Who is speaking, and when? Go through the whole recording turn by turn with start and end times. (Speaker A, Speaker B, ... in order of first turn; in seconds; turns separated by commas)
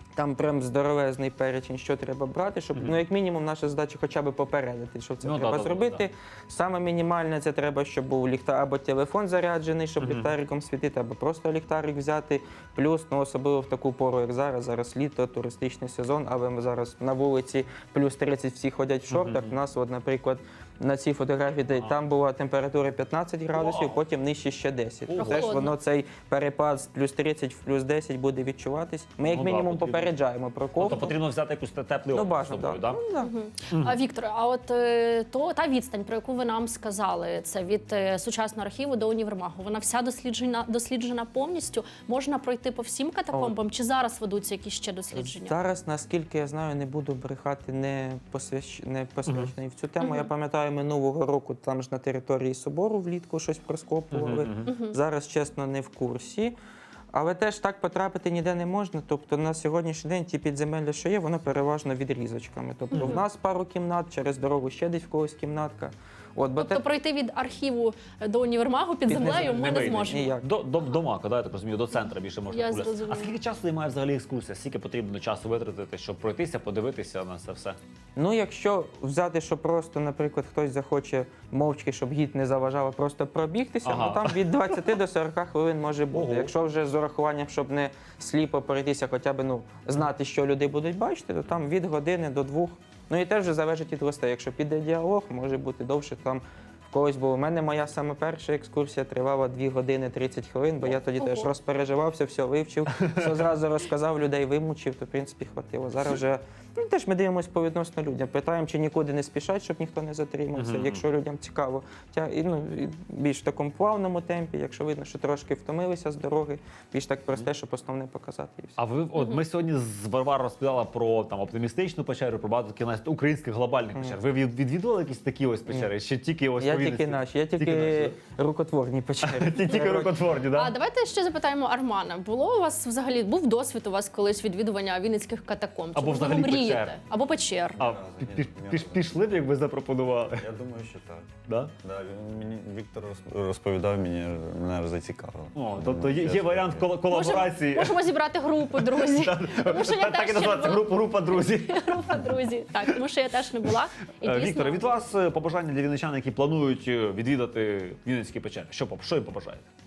Speaker A: 0.1-31.2, Speaker B: 2.8-3.0, Speaker B: 5.2-6.0, Speaker B: 10.0-10.3, Speaker B: 19.1-19.6, Speaker B: 23.5-24.0, Speaker B: 25.1-25.6, Speaker C: 25.2-25.8, Speaker B: 29.3-30.1, Speaker B: 30.8-33.0, Speaker A: 32.1-33.3, Speaker C: 33.2-45.6, Speaker A: 43.3-43.6, Speaker A: 45.1-56.5, Speaker B: 49.3-49.5, Speaker C: 50.0-50.3, Speaker B: 54.1-54.7, Speaker C: 54.7-55.0, Speaker A: 57.1-66.8, Speaker C: 62.9-63.2, Speaker C: 66.6-70.3, Speaker A: 69.1-70.5, Speaker B: 69.1-77.8, Speaker C: 72.5-73.4, Speaker A: 78.2-118.8, Speaker B: 83.8-84.8, Speaker B: 86.1-86.5, Speaker C: 101.2-101.5, Speaker B: 110.5-111.0, Speaker B: 118.8-128.2, Speaker A: 126.6-130.1, Speaker B: 129.2-130.7, Speaker C: 130.5-137.8, Speaker B: 135.9-136.9, Speaker D: 137.8-139.5, Speaker B: 137.8-140.5, Speaker D: 140.2-141.3, Speaker B: 141.5-141.8, Speaker D: 141.8-147.1, Speaker B: 145.5-148.0, Speaker C: 147.1-154.9, Speaker B: 148.7-152.3, Speaker B: 154.2-159.7